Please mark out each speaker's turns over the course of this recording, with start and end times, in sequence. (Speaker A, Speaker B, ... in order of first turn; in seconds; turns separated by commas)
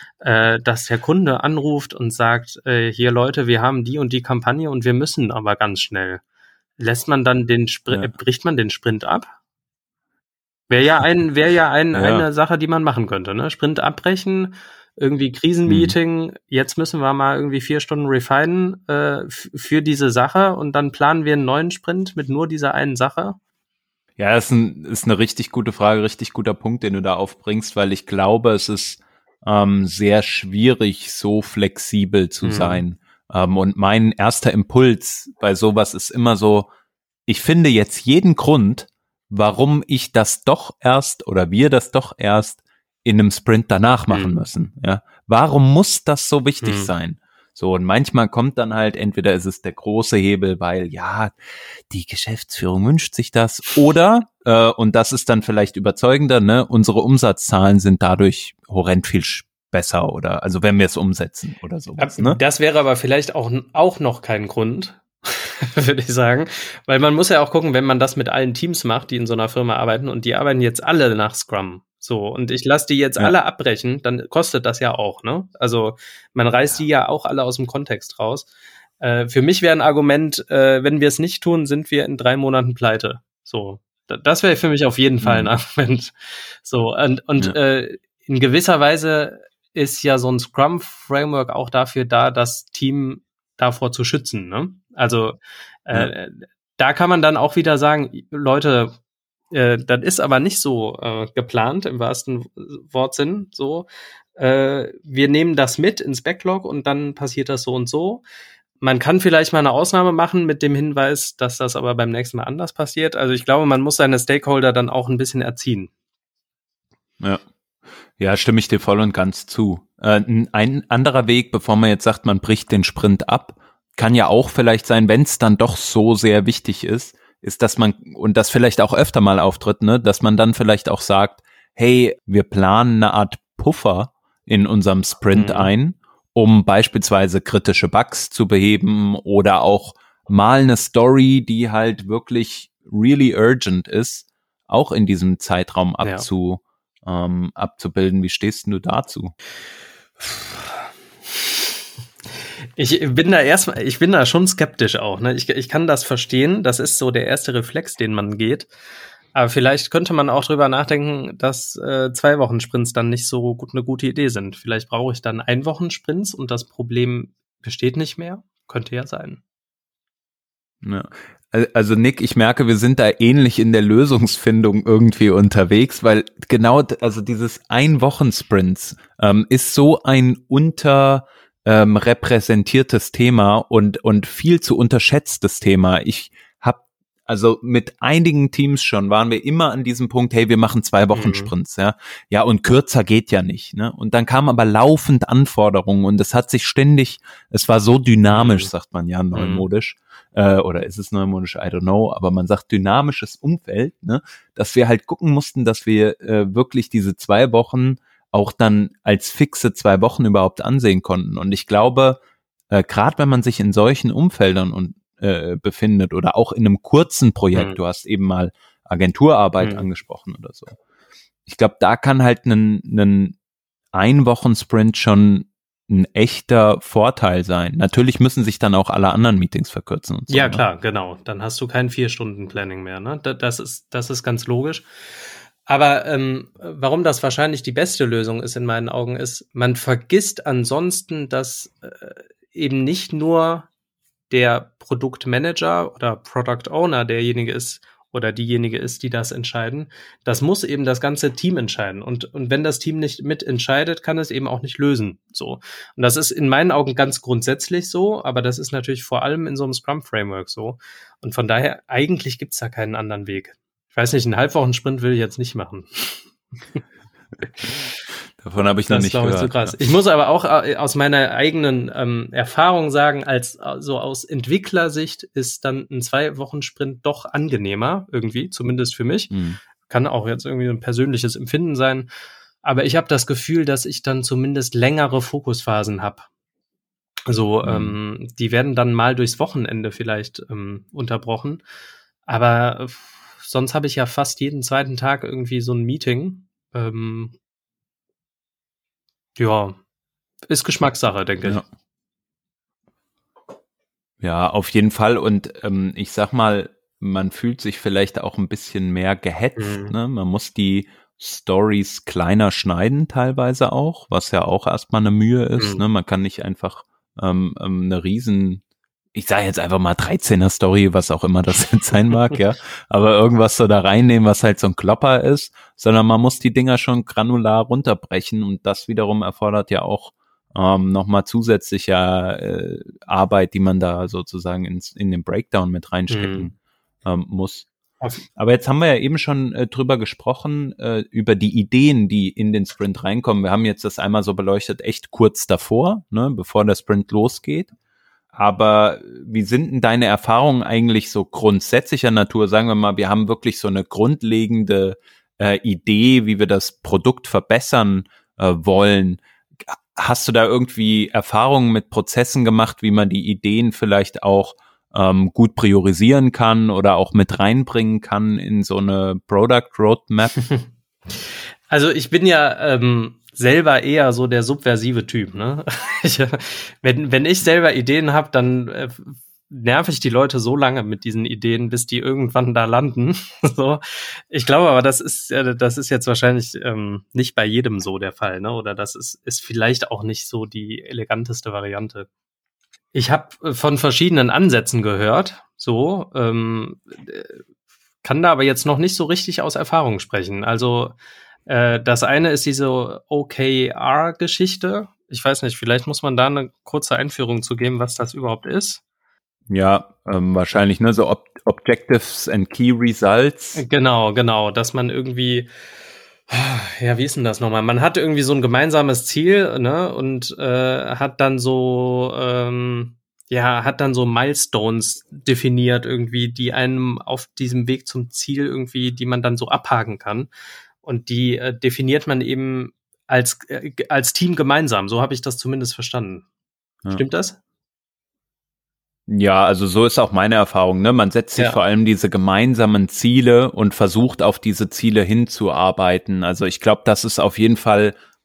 Speaker A: 0.2-6.2, Speaker A: 6.8-9.3, Speaker A: 10.7-23.4, Speaker B: 11.9-12.2, Speaker B: 15.7-15.9, Speaker B: 24.2-36.7, Speaker A: 32.4-32.8, Speaker B: 37.3-51.3, Speaker A: 44.1-44.4, Speaker A: 46.6-46.9, Speaker B: 51.9-62.4, Speaker A: 62.0-78.5, Speaker A: 79.0-98.9, Speaker B: 85.2-85.5, Speaker A: 99.5-108.2, Speaker A: 108.8-115.9, Speaker B: 118.2-149.3, Speaker A: 135.3-135.7, Speaker A: 150.2-150.6, Speaker A: 152.8-158.7, Speaker A: 159.3-169.4, Speaker B: 170.8-212.2, Speaker A: 191.1-191.5, Speaker A: 198.3-198.7, Speaker A: 199.3-199.6, Speaker B: 212.7-220.8, Speaker A: 219.6-219.9, Speaker B: 221.4-223.3, Speaker B: 223.9-230.6, Speaker A: 230.3-234.8, Speaker A: 235.7-243.7, Speaker A: 244.3-266.2, Speaker B: 268.4-269.8, Speaker A: 268.9-279.3, Speaker B: 279.3-279.6, Speaker A: 279.9-282.1, Speaker A: 282.6-286.3, Speaker A: 287.2-291.6, Speaker B: 287.6-288.0, Speaker A: 292.3-297.3, Speaker A: 299.4-299.8, Speaker A: 300.5-301.6, Speaker B: 304.2-318.6, Speaker A: 309.6-309.9, Speaker A: 315.6-315.8, Speaker B: 319.1-336.5, Speaker A: 336.1-336.5, Speaker B: 337.0-337.7, Speaker B: 338.4-347.7, Speaker B: 348.3-370.4, Speaker A: 370.4-392.1, Speaker A: 392.9-397.4, Speaker A: 398.0-408.8, Speaker B: 409.5-413.6, Speaker A: 413.6-415.5, Speaker A: 416.3-430.3, Speaker A: 430.8-436.2, Speaker A: 436.9-437.4, Speaker B: 439.1-447.9